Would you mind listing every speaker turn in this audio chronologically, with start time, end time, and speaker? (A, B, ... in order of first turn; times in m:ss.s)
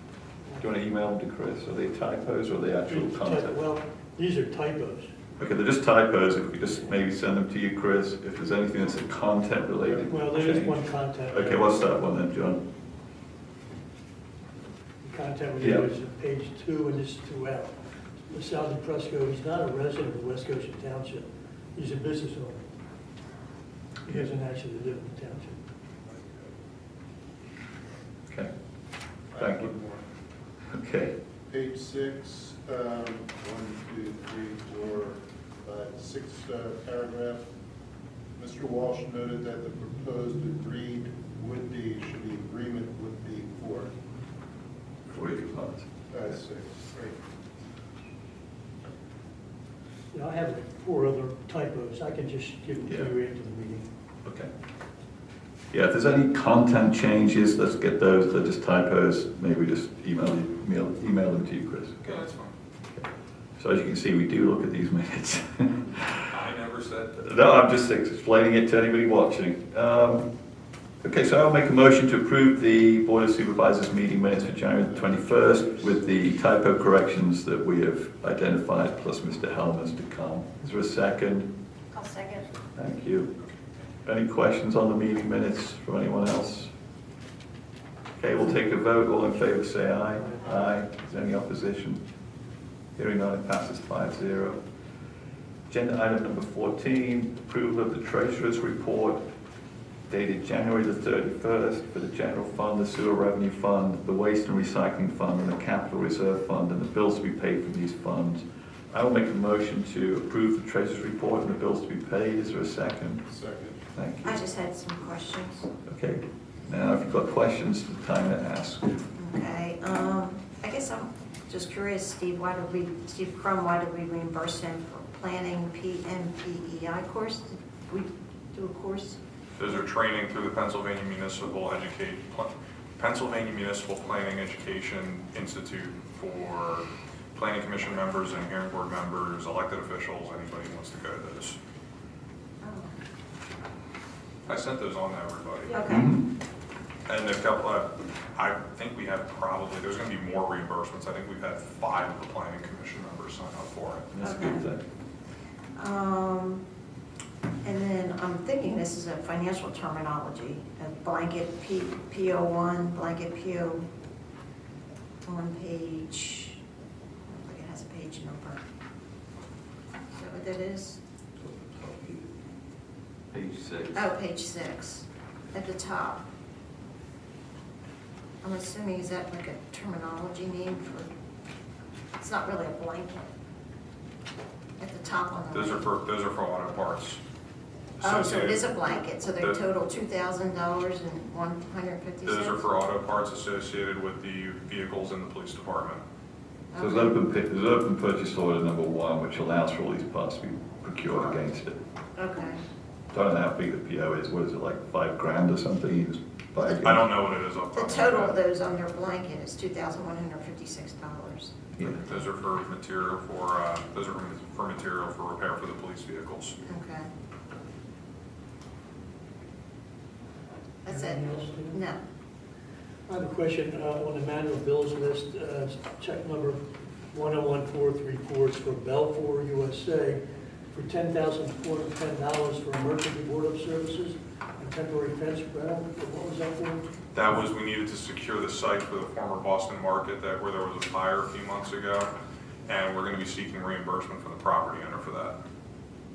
0:00.6-0:03.6 A
0:02.9-0:05.1 B
0:05.4-0:12.6 A
0:10.1-0:11.7 B
0:15.0-0:22.7 B
0:15.6-0:15.9 A
0:24.0-0:25.6 B
0:29.3-0:30.0 C
0:29.4-0:29.7 A
0:30.7-0:31.1 A
0:31.5-0:37.4 C
0:38.4-0:43.9 C
0:45.1-0:46.4 A
0:46.1-0:47.1 C
0:50.1-0:53.9 B
0:52.8-0:53.1 A
0:54.2-0:54.5 A
0:55.7-1:02.1 A
1:02.0-1:02.5 D
1:03.6-1:06.3 A
1:06.3-1:07.2 D
1:07.2-1:10.3 A
1:11.0-1:21.5 A
1:21.9-1:22.4 E
1:22.7-1:23.3 A
1:24.0-1:26.7 A
1:28.2-1:32.0 A
1:33.0-1:34.6 A
1:35.7-1:39.2 A
1:40.1-1:53.2 A
1:53.3-1:53.6 C
1:53.9-1:54.4 A
1:54.2-1:55.7 E
1:55.8-1:59.0 A
1:59.2-2:09.2 E
2:09.6-2:21.6 D
2:22.6-2:22.9 E
2:24.5-2:25.8 D
2:25.6-2:26.2 E
2:25.9-2:26.2 A
2:27.0-2:34.1 D
2:34.1-2:34.8 A
2:34.2-2:34.6 E
2:35.8-2:36.6 E
2:37.6-2:43.8 E
2:45.2-2:46.6 E
2:47.3-2:48.6 E
2:50.1-2:51.0 E
2:51.4-2:52.4 A
2:53.3-2:54.1 A
2:53.9-2:56.2 E
2:58.4-3:01.1 E
3:02.2-3:03.3 E
3:04.8-3:05.9 E
3:05.5-3:07.2 D
3:08.0-3:08.9 D
3:08.0-3:12.6 E
3:12.2-3:16.0 D
3:16.7-3:17.1 E
3:16.8-3:21.8 A
3:22.2-3:22.6 E
3:23.1-3:27.1 A
3:26.6-3:27.0 E
3:26.8-3:28.4 D
3:27.7-3:31.6 E
3:31.8-3:36.6 D
3:36.6-3:37.1 E
3:40.8-3:42.0 E
3:40.8-3:41.8 B
3:43.1-3:46.6 B
3:47.1-3:50.2 B
3:50.7-3:56.8 B
3:57.1-4:02.1 D
4:02.6-4:05.4 D